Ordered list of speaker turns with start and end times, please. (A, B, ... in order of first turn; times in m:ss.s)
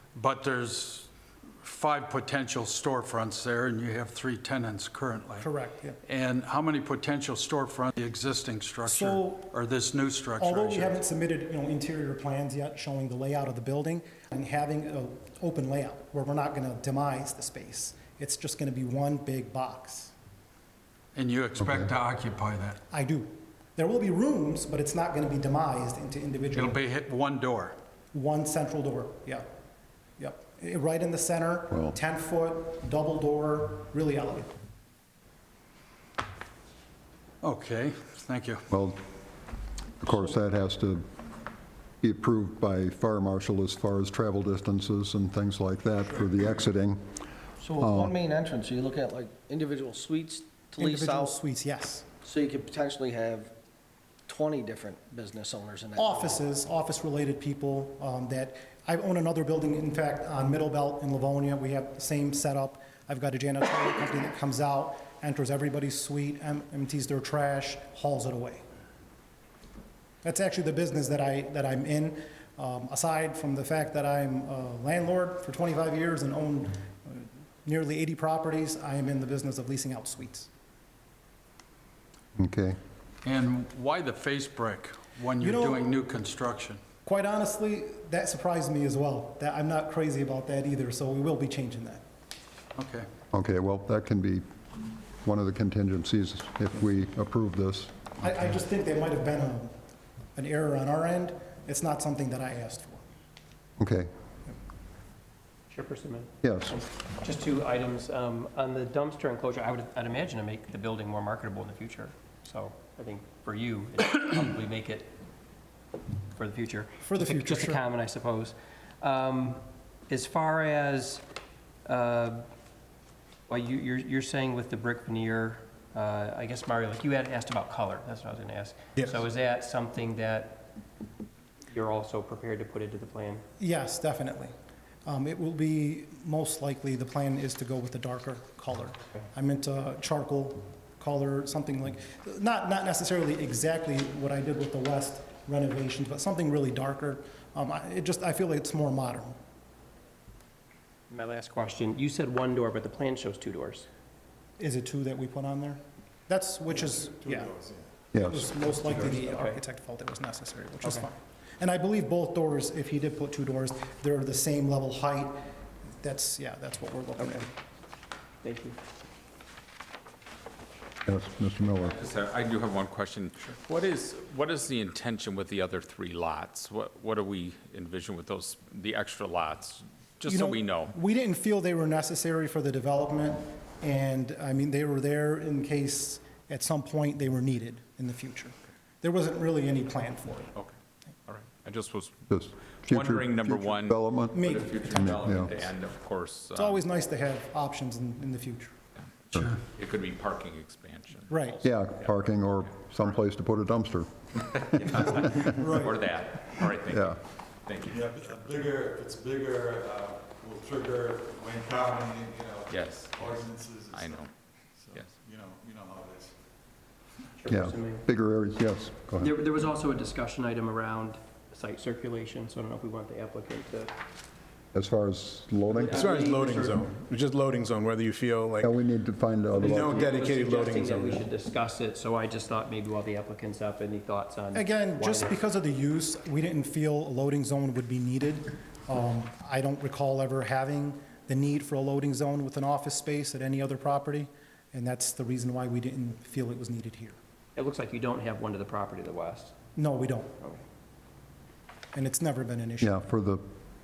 0:00.1-0:01.1 A
0:01.6-0:05.5 A
0:05.4-0:06.0 B
0:06.1-0:11.0 A
0:08.9-0:09.5 B
0:10.4-0:20.1 B
0:21.1-0:22.8 A
0:22.9-0:26.8 B
0:26.5-0:27.8 A
0:28.1-0:29.4 B
0:30.2-0:34.5 B
0:37.4-0:38.6 A
0:38.7-0:39.0 C
0:40.0-0:41.1 C
0:42.0-0:47.0 C
0:47.6-0:51.4 D
0:47.8-0:48.1 C
0:50.8-0:52.1 B
0:52.2-0:53.5 D
0:54.3-0:56.4 D
0:56.0-1:08.6 B
1:10.2-1:20.5 B
1:22.4-1:22.8 C
1:23.2-1:26.8 A
1:25.4-1:25.9 B
1:27.0-1:32.0 B
1:32.8-1:33.1 A
1:33.3-1:34.4 C
1:35.2-1:38.2 C
1:38.2-1:39.7 B
1:40.4-1:43.0 B
1:43.8-1:44.1 C
1:45.7-1:55.1 E
1:46.4-1:46.8 C
1:56.3-2:01.2 E
1:57.0-1:57.8 B
2:01.8-2:02.4 E
2:03.5-2:10.7 E
2:11.7-2:13.4 E
2:13.6-2:14.5 B
2:15.0-2:29.4 B
2:31.1-2:33.9 E
2:34.6-2:37.5 B
2:36.9-2:37.9 F
2:38.1-2:38.5 C
2:38.2-2:45.4 B
2:38.8-2:39.6 E
2:46.0-2:47.5 B
2:48.4-2:48.8 E
2:51.0-2:52.0 C
2:51.8-3:00.9 G
3:00.2-3:10.5 B
3:11.3-3:16.8 G
3:12.3-3:15.6 C
3:14.3-3:15.1 B
3:16.5-3:18.7 B
3:19.6-3:21.9 G
3:21.3-3:21.6 B
3:21.6-3:24.2 C
3:24.5-3:28.7 G
3:24.9-3:25.5 C
3:25.5-3:26.0 F
3:26.8-3:27.2 C
3:27.9-3:36.4 F
3:32.7-3:33.2 G
3:33.9-3:34.3 G
3:37.4-3:38.0 E
3:37.4-3:39.4 C
3:39.2-3:43.9 E
3:44.7-3:46.0 C
3:45.7-3:46.9 E
3:45.9-3:48.8 H
3:48.6-3:50.0 C
3:49.5-3:51.3 H
3:49.5-3:55.4 E
3:54.5-4:07.2 B
4:07.6-4:09.6 E
4:09.8-4:10.4 B
4:11.9-4:13.0 B
4:12.8-4:13.4 C